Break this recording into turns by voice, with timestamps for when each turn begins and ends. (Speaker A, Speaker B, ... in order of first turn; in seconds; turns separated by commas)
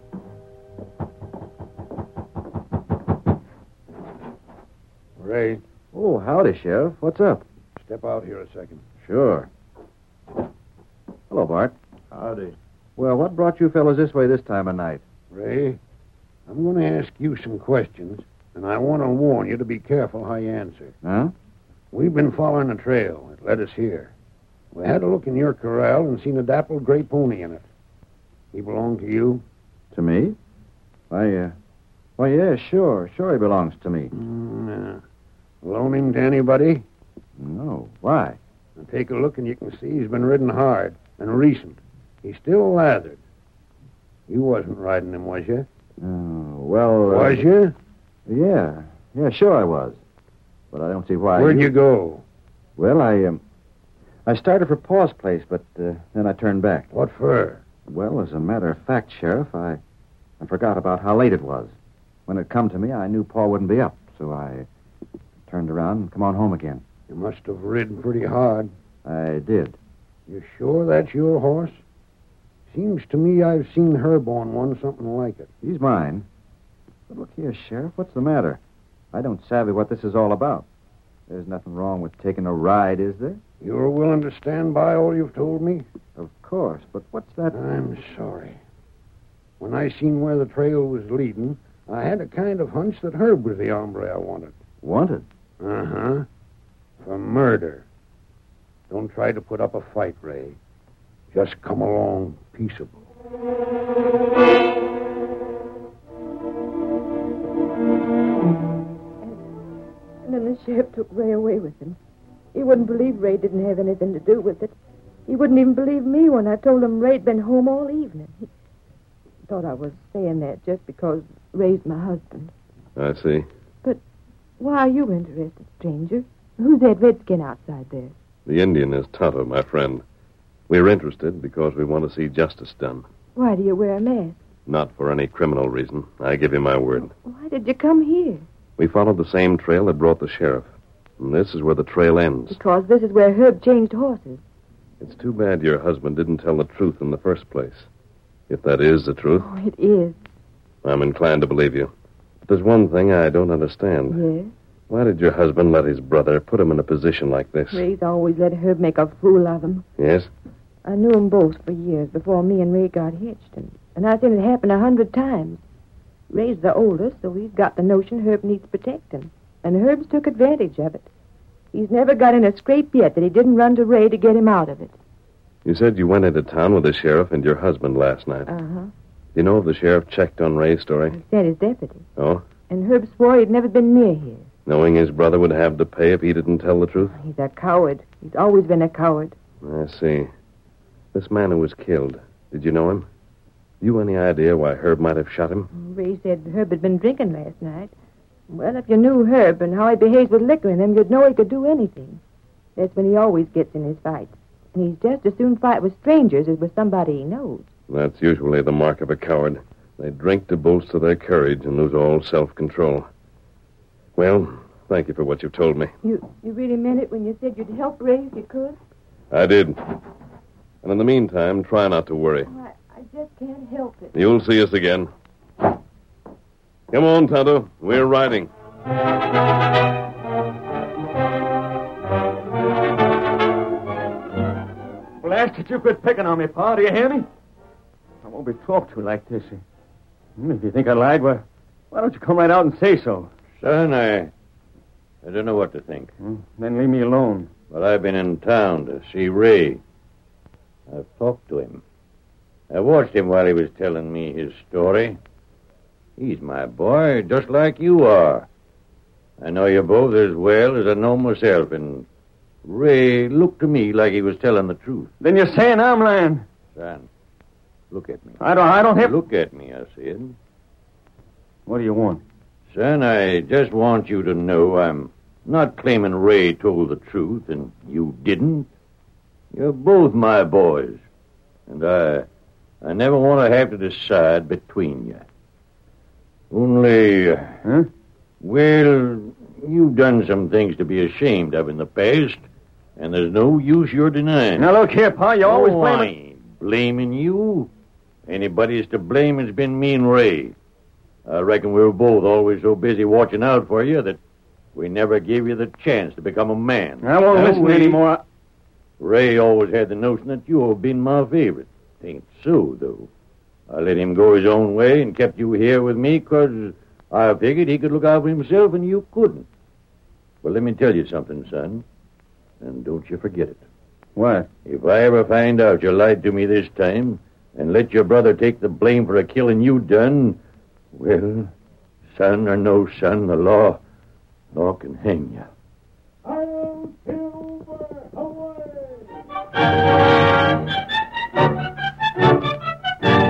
Speaker A: 5.2-5.6, Speaker B: 5.9-7.5, Speaker A: 7.8-8.8, Speaker B: 9.0-9.5, Speaker B: 11.3-11.8, Speaker B: 13.0-15.0, Speaker A: 15.3-15.8, Speaker A: 16.5-20.9, Speaker B: 21.0-21.3, Speaker A: 21.9-24.1, Speaker A: 24.7-27.7, Speaker A: 28.5-29.4, Speaker B: 29.9-30.4, Speaker B: 31.1-31.6, Speaker B: 32.2-34.1, Speaker A: 34.1-35.0, Speaker A: 35.6-36.9, Speaker B: 37.4-38.4, Speaker A: 38.8-43.2, Speaker A: 44.3-45.7, Speaker B: 46.0-47.5, Speaker A: 47.1-47.7, Speaker B: 48.3-50.0, Speaker B: 50.7-51.7, Speaker A: 51.4-52.2, Speaker B: 52.8-53.4, Speaker B: 54.3-56.9, Speaker A: 56.9-57.6, Speaker B: 57.9-59.8, Speaker B: 60.4-61.7, Speaker B: 62.3-64.7, Speaker B: 65.5-66.8, Speaker A: 67.1-68.7, Speaker B: 69.0-69.8, Speaker A: 70.3-71.8, Speaker A: 72.7-75.5, Speaker B: 75.6-76.3, Speaker B: 77.1-78.6, Speaker B: 79.1-80.7, Speaker B: 81.3-83.4, Speaker A: 83.6-85.9, Speaker B: 86.2-87.6, Speaker A: 87.5-88.6, Speaker A: 89.6-94.5, Speaker B: 94.8-95.3, Speaker A: 95.6-96.3, Speaker A: 97.0-97.8, Speaker A: 98.9-100.6, Speaker A: 101.3-103.0, Speaker C: 110.2-112.0, Speaker C: 112.5-114.8, Speaker C: 115.3-118.5, Speaker C: 119.5-122.5, Speaker D: 123.0-123.5, Speaker C: 124.6-128.1, Speaker D: 128.5-130.0, Speaker D: 130.7-133.1, Speaker C: 133.4-134.4, Speaker D: 134.7-137.1, Speaker C: 137.2-138.4, Speaker D: 138.8-142.6, Speaker C: 142.5-144.4, Speaker D: 145.0-147.9, Speaker D: 148.5-149.5, Speaker C: 149.4-150.2, Speaker D: 150.8-151.9, Speaker D: 152.5-154.2, Speaker C: 154.1-154.5, Speaker D: 154.9-157.8, Speaker C: 157.7-159.9, Speaker D: 160.0-160.3, Speaker C: 160.8-165.6, Speaker C: 166.3-171.1, Speaker C: 171.7-174.9, Speaker D: 175.7-178.5, Speaker C: 178.5-178.9, Speaker D: 179.3-181.2, Speaker C: 181.1-182.1, Speaker D: 182.2-182.4, Speaker C: 182.7-184.5, Speaker D: 184.7-187.2, Speaker C: 187.1-189.4, Speaker D: 189.6-190.3, Speaker D: 191.1-193.1, Speaker D: 193.8-195.7, Speaker C: 195.7-197.9, Speaker C: 198.5-202.2, Speaker C: 202.8-207.7, Speaker D: 207.9-213.1, Speaker D: 214.2-215.9, Speaker C: 216.0-218.8, Speaker D: 219.3-219.8, Speaker D: 220.8-222.5, Speaker C: 222.5-224.2, Speaker D: 224.2-225.1, Speaker D: 226.9-228.5, Speaker E: 235.2-237.3, Speaker E: 238.2-239.6, Speaker E: 240.4-243.3, Speaker F: 243.6-244.3, Speaker F: 245.2-246.1, Speaker E: 246.2-247.5, Speaker F: 247.7-249.8, Speaker F: 250.9-251.8, Speaker F: 252.7-255.2, Speaker F: 256.2-258.5, Speaker F: 259.4-262.1, Speaker F: 262.6-265.1, Speaker E: 265.2-266.4, Speaker F: 266.8-267.1, Speaker F: 267.9-268.4, Speaker E: 268.4-269.2, Speaker F: 268.9-270.4, Speaker E: 271.7-272.2, Speaker F: 272.7-278.7, Speaker F: 279.5-281.0, Speaker F: 281.7-282.3, Speaker F: 282.8-285.2, Speaker F: 286.5-287.6, Speaker F: 288.4-292.4, Speaker F: 293.0-294.7, Speaker E: 294.6-296.1, Speaker F: 295.4-297.7, Speaker F: 298.3-300.6, Speaker F: 301.3-304.2, Speaker F: 304.7-308.0, Speaker E: 307.0-308.2, Speaker F: 309.0-313.1, Speaker F: 313.7-319.5, Speaker F: 320.4-321.9, Speaker F: 322.6-323.6, Speaker E: 324.2-324.5, Speaker F: 324.6-330.4, Speaker F: 330.9-331.5, Speaker F: 332.1-333.8, Speaker F: 334.5-335.5, Speaker E: 336.5-338.5